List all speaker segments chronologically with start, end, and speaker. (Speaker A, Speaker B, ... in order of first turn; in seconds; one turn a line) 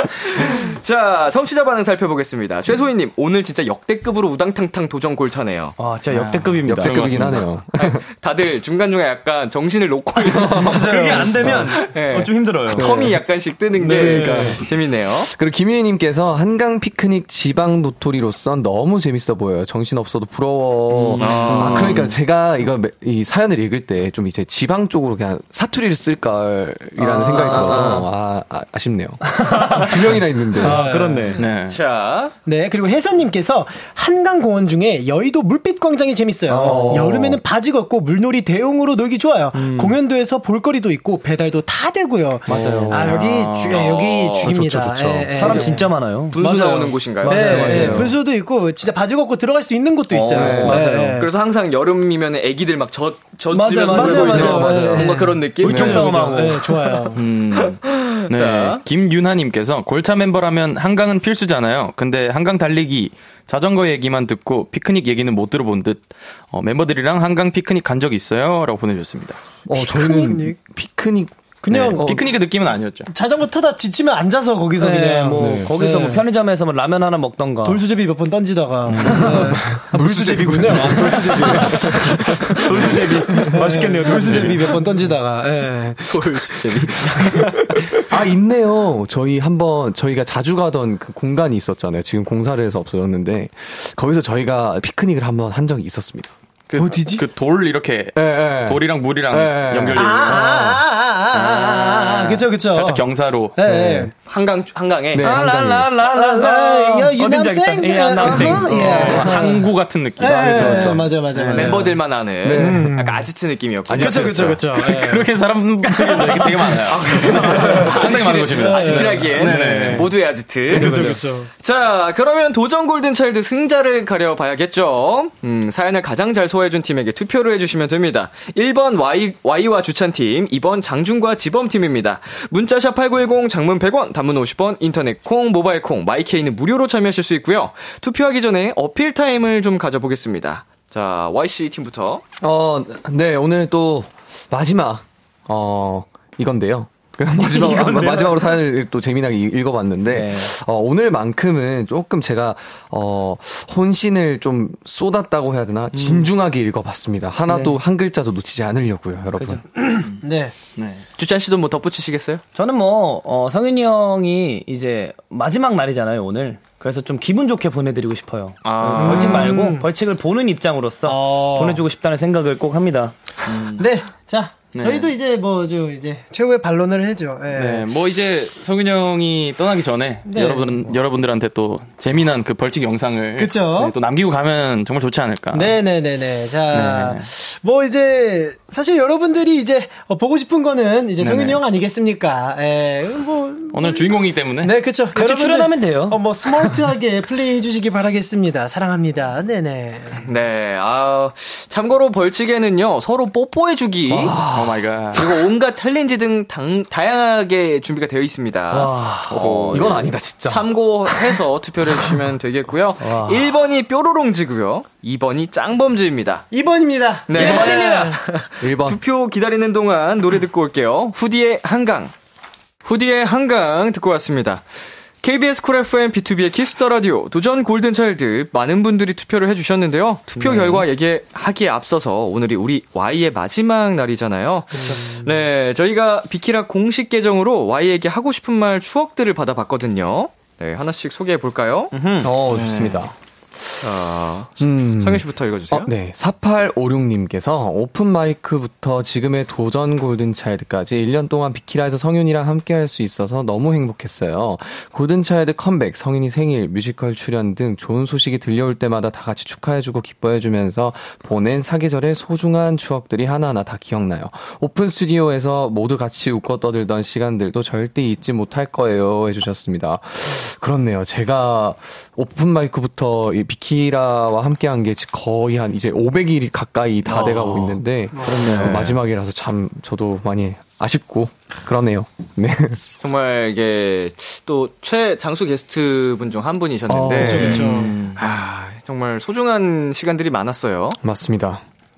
Speaker A: 0.3-5.8
Speaker B: 5.8-7.3
Speaker C: 6.1-7.5
Speaker D: 6.7-8.0
Speaker A: 7.8-15.3
Speaker D: 10.3-10.7
Speaker E: 10.6-11.4
Speaker B: 10.6-12.9
Speaker D: 11.4-11.7
Speaker D: 12.8-13.2
Speaker B: 13.8-14.6
Speaker D: 13.8-30.8
Speaker C: 20.9-22.1
Speaker A: 21.2-22.1
Speaker B: 27.1-28.1
Speaker B: 29.4-29.9
Speaker B: 30.6-31.4
Speaker E: 30.6-31.4
Speaker C: 31.4-31.8
Speaker A: 31.7-32.3
Speaker E: 32.5-46.7
Speaker B: 36.5-37.1
Speaker D: 36.6-37.4
Speaker B: 39.5-40.0
Speaker D: 42.5-43.1
Speaker B: 42.5-43.0
Speaker C: 42.9-43.8
Speaker A: 43.7-44.5
Speaker D: 44.4-45.7
Speaker B: 45.3-48.1
Speaker A: 46.3-48.0
Speaker E: 47.2-51.3
Speaker D: 47.4-48.1
Speaker B: 50.1-51.2
Speaker D: 50.3-50.9
Speaker A: 51.2-56.3
Speaker B: 53.5-54.9
Speaker E: 53.9-57.2
Speaker D: 54.1-56.4
Speaker B: 55.6-56.6
Speaker C: 57.1-69.4
Speaker A: 57.5-58.8
Speaker D: 69.7-72.3
Speaker E: 69.7-70.6
Speaker E: 71.6-72.1
Speaker C: 72.0-73.1
Speaker E: 73.1-76.3
Speaker B: 74.8-77.8
Speaker D: 75.4-75.7
Speaker E: 77.7-87.6
Speaker C: 78.9-79.6
Speaker D: 79.0-79.4
Speaker D: 79.9-84.5
Speaker B: 82.6-84.7
Speaker A: 86.1-87.4
Speaker D: 88.0-96.3
Speaker C: 96.7-100.6
Speaker E: 96.8-97.2
Speaker D: 98.2-100.8
Speaker E: 100.0-103.0
Speaker C: 101.5-103.6
Speaker E: 103.6-104.1
Speaker D: 103.6-104.1
Speaker A: 104.3-105.3
Speaker D: 105.1-105.9
Speaker B: 105.2-109.2
Speaker E: 106.1-112.0
Speaker D: 108.2-109.6
Speaker C: 108.4-112.0
Speaker D: 110.4-111.0
Speaker A: 111.5-114.4
Speaker D: 112.4-112.9
Speaker E: 112.5-113.3
Speaker D: 113.9-114.6
Speaker E: 113.9-115.3
Speaker C: 114.7-120.1
Speaker E: 116.0-119.3
Speaker A: 116.9-142.2
Speaker B: 119.1-120.1
Speaker B: 120.7-121.2
Speaker E: 120.7-121.5
Speaker D: 142.4-159.8
Speaker B: 147.4-148.4
Speaker B: 150.1-150.5
Speaker B: 155.9-156.3
Speaker B: 157.5-157.8
Speaker B: 159.4-159.6
Speaker E: 159.8-160.5
Speaker C: 160.8-161.0
Speaker A: 161.2-162.4
Speaker B: 162.6-173.2
Speaker A: 168.7-169.5
Speaker E: 169.0-169.9
Speaker E: 171.0-171.8
Speaker C: 173.5-173.8
Speaker E: 173.8-177.9
Speaker C: 174.7-175.1
Speaker C: 177.5-185.8
Speaker E: 180.3-180.9
Speaker E: 183.4-183.9
Speaker E: 185.5-200.2
Speaker C: 186.7-187.3
Speaker C: 191.2-191.6
Speaker C: 193.7-194.7
Speaker B: 195.1-196.2
Speaker A: 200.2-204.4
Speaker D: 204.1-204.8
Speaker C: 204.4-205.4
Speaker A: 205.2-216.5
Speaker B: 208.7-209.7
Speaker C: 209.4-209.9
Speaker D: 209.7-210.7
Speaker B: 213.0-213.5
Speaker E: 216.5-218.4
Speaker A: 217.3-218.1
Speaker B: 217.3-218.2
Speaker D: 218.6-219.0
Speaker A: 218.8-222.1
Speaker A: 222.8-224.6
Speaker A: 225.2-241.9
Speaker B: 230.4-230.8
Speaker E: 234.8-235.1
Speaker B: 241.9-242.3
Speaker D: 242.2-243.1
Speaker C: 242.6-243.0
Speaker A: 243.8-245.9
Speaker D: 244.6-282.8
Speaker A: 277.1-279.0
Speaker E: 278.1-278.5
Speaker C: 278.5-278.9
Speaker A: 283.0-291.0
Speaker D: 286.9-287.7
Speaker E: 287.2-288.0
Speaker C: 287.3-288.2
Speaker D: 291.0-291.6